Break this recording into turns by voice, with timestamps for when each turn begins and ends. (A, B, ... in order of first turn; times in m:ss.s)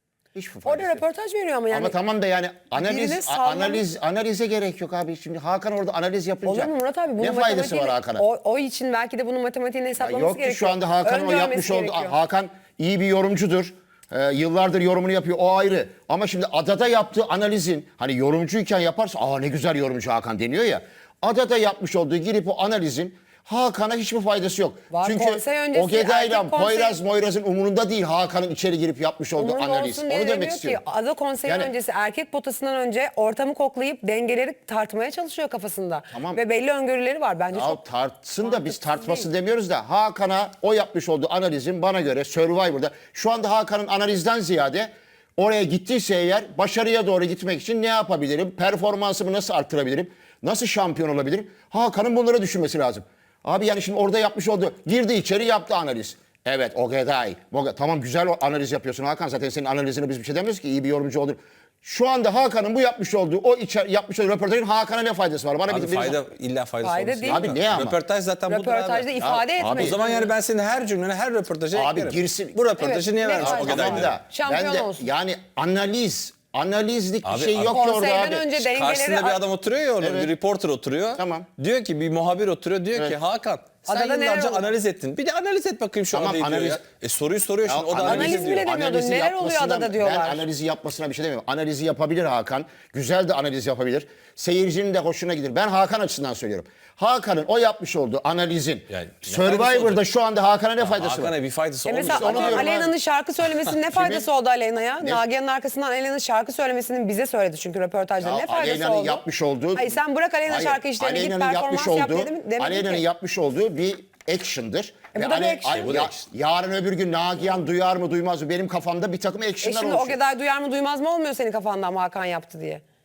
0:00.3-0:01.0 A
0:00.6-0:01.9 B
0:01.7-0:08.2 A
0:02.7-0:03.8 B
0:06.4-0:12.1 B
0:10.0-0:30.8 A
0:24.9-0:27.0 B
0:29.4-0:37.8 B
0:31.4-0:31.7 A
0:36.1-0:36.4 A
0:37.5-1:06.2 A
0:38.4-0:39.3 B
1:05.7-1:14.2 C
1:06.8-1:07.5 B
1:07.2-1:08.0 A
1:08.5-1:10.3 B
1:09.2-1:10.0 A
1:11.7-1:12.6 A
1:12.8-1:15.1 B
1:13.4-1:18.5 A
1:17.2-1:17.8 C
1:17.6-1:19.4 B
1:18.6-1:28.7 C
1:20.0-1:20.3 A
1:21.2-1:21.5 A
1:23.8-1:24.7 B
1:26.1-1:26.8 A
1:27.6-1:41.3 A
1:28.0-1:30.5 B
1:38.9-1:40.0 C
1:40.8-1:42.9 C
1:41.8-1:49.2 B
1:42.0-1:42.9 A
1:43.9-1:44.3 A
1:48.2-2:00.2 A
1:49.7-1:53.0 B
1:55.1-1:55.9 B
1:55.7-1:56.3 C
1:59.6-2:02.8 B